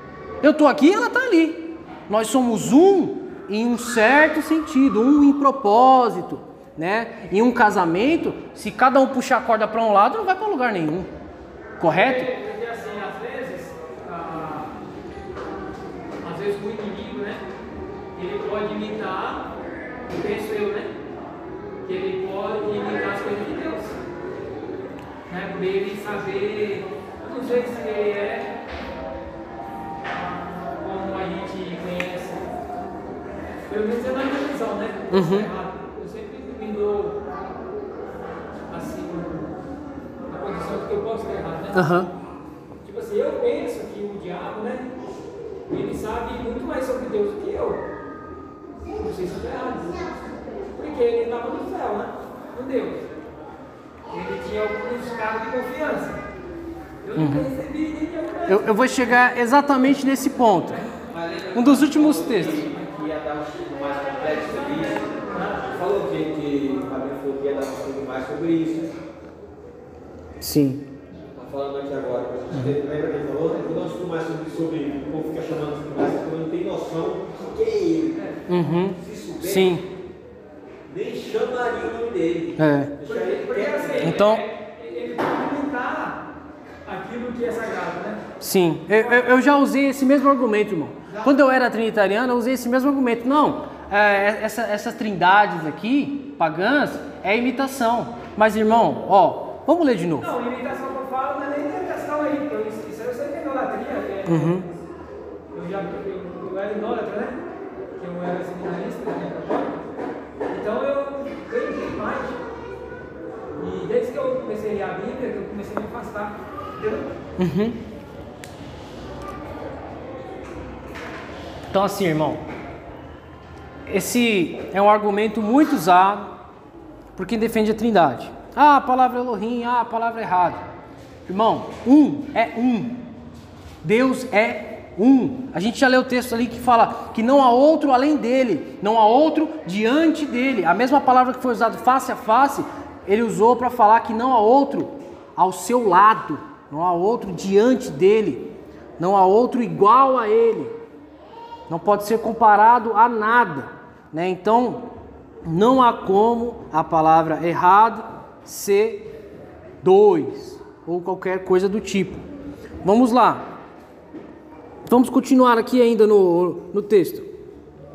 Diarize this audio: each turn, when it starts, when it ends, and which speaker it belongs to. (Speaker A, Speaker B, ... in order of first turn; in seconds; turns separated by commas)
Speaker A: 0.4-11.1, Speaker A: 11.8-12.3, Speaker B: 11.8-14.7, Speaker B: 16.2-17.4, Speaker B: 18.1-19.5, Speaker B: 20.1-20.9, Speaker B: 21.8-24.0, Speaker B: 25.3-28.5, Speaker B: 30.2-32.4, Speaker B: 33.7-37.2, Speaker A: 35.1-35.5, Speaker B: 38.7-39.5, Speaker B: 40.3-41.9, Speaker A: 41.7-42.1, Speaker B: 42.8-44.9, Speaker B: 45.7-47.8, Speaker B: 49.0-50.1, Speaker B: 50.7-53.0, Speaker B: 54.1-56.2, Speaker B: 57.0-58.9, Speaker A: 57.1-57.5, Speaker A: 58.5-60.9, Speaker C: 61.1-68.9, Speaker A: 61.5-62.6, Speaker B: 64.3-65.7, Speaker A: 70.4-70.8, Speaker C: 71.3-78.2, Speaker A: 78.5-79.8, Speaker C: 79.0-79.8, Speaker C: 80.9-84.2, Speaker A: 82.5-82.9, Speaker B: 83.0-86.2, Speaker A: 84.0-84.4, Speaker B: 86.8-88.2, Speaker A: 88.4-100.3, Speaker B: 100.2-104.6, Speaker A: 104.2-104.7, Speaker B: 105.5-107.4, Speaker B: 108.0-109.9, Speaker B: 110.5-112.4, Speaker B: 113.6-117.1, Speaker A: 117.4-117.8, Speaker A: 121.7-122.4, Speaker A: 123.9-126.4, Speaker A: 127.2-130.6, Speaker A: 131.3-133.1, Speaker A: 133.8-150.7, Speaker A: 151.7-154.9, Speaker A: 155.4-159.1, Speaker A: 159.8-162.2, Speaker A: 162.8-163.5, Speaker A: 164.9-167.3